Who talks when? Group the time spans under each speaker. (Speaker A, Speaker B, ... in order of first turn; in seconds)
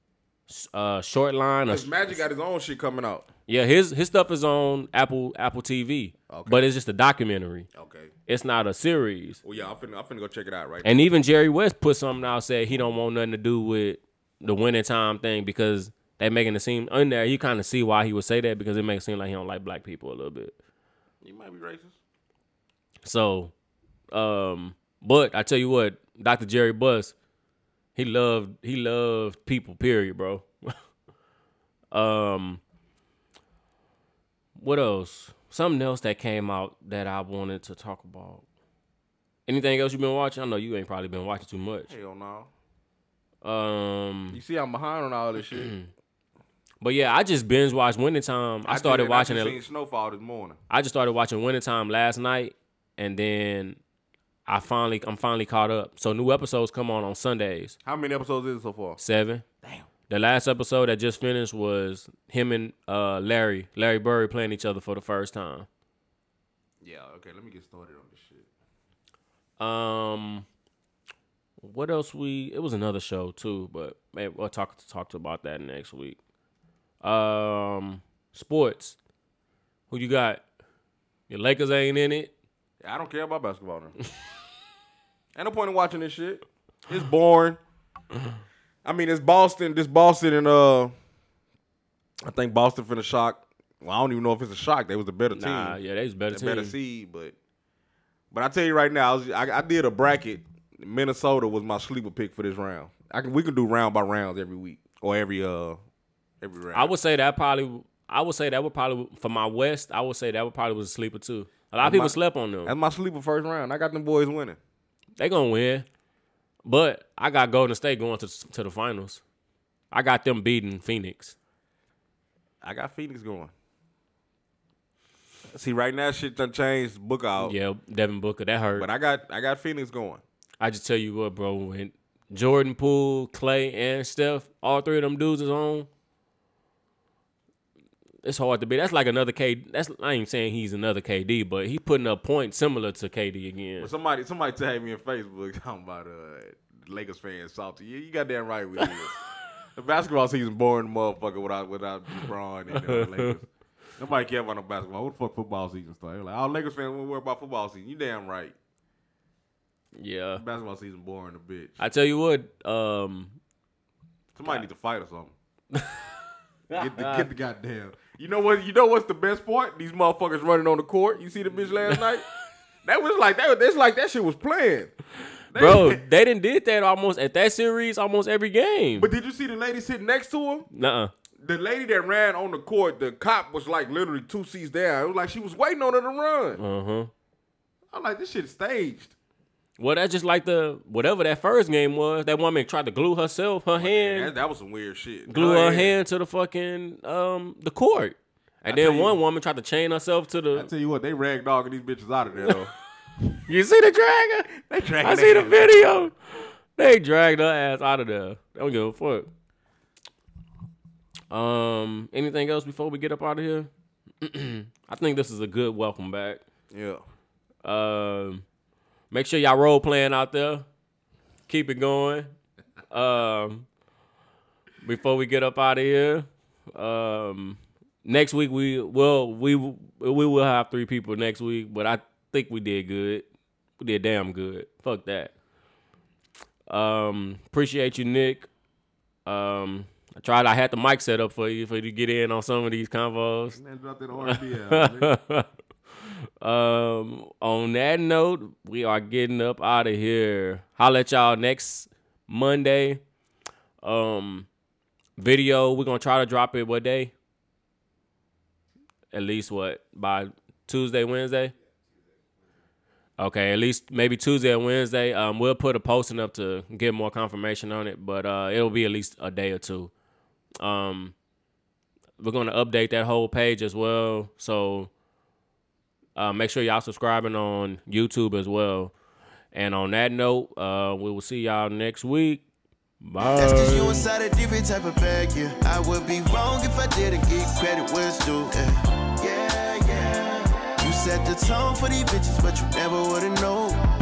Speaker A: 0.5-2.2, 3.5-7.7, 8.3-9.4, 10.8-20.6, 23.0-23.5, 24.1-27.1, 28.0-30.8, 31.9-32.6, 34.6-38.4, 39.5-41.9, 43.4-44.4, 45.6-45.9, 46.8-49.6, 50.7-53.8, 54.5-57.8, 59.0-59.4, 60.1-65.7, 69.6-70.5, 71.6-76.2, 77.0-79.0, 79.9-80.4, 81.3-82.3, 95.3-96.7, 106.7-112.8, 115.2-115.9, 116.7-119.2, 119.9-121.3, 127.4-128.9, 130.6-135.9, 138.2-143.9, 152.7-153.4, 159.9-160.4, 161.8-163.4, 165.7-166.1, 166.7-167.3, 171.9-172.1, 175.5-179.1, 180.7-181.1, 186.6-187.1, 189.8-194.3, 195.3-200.7, 203.2-209.3, 211.3-213.7, 214.2-216.4, 217.6-218.4, 219.1-220.7, 221.5-222.3, 222.9-223.7, 224.8-233.3, 233.8-235.3, 236.7-238.5, 239.3-243.6, 244.2-245.5, 246.4-253.0, 253.8-254.5, 255.2-257.1, 259.1-261.5, 263.2-269.9, 270.6-271.1, 272.2-274.9, 276.2-278.9, 279.5-282.4, 283.0-284.1
Speaker B: 1.7-3.3, 6.3-6.6, 7.7-8.1, 9.4-10.9, 21.2-22.0, 41.9-42.5, 44.3-45.7, 48.7-50.6, 57.8-59.0, 59.6-59.9, 66.8-68.5, 82.8-84.0, 85.3-87.6, 88.8-90.9, 92.2-95.8, 96.3-97.3, 98.3-105.8, 106.4-106.9, 111.8-114.6, 122.6-123.5, 125.5-127.5, 128.8-130.2, 143.8-149.2, 149.8-158.5, 160.4-161.8, 164.3-165.3, 166.7-172.2, 172.8-174.9, 175.5-176.0, 179.0-180.7, 181.4-186.6, 187.9-189.1, 193.8-196.0, 198.7-199.2, 200.5-202.7, 204.6-206.0, 216.7-217.0, 243.5-245.1
Speaker C: 283.4-293.8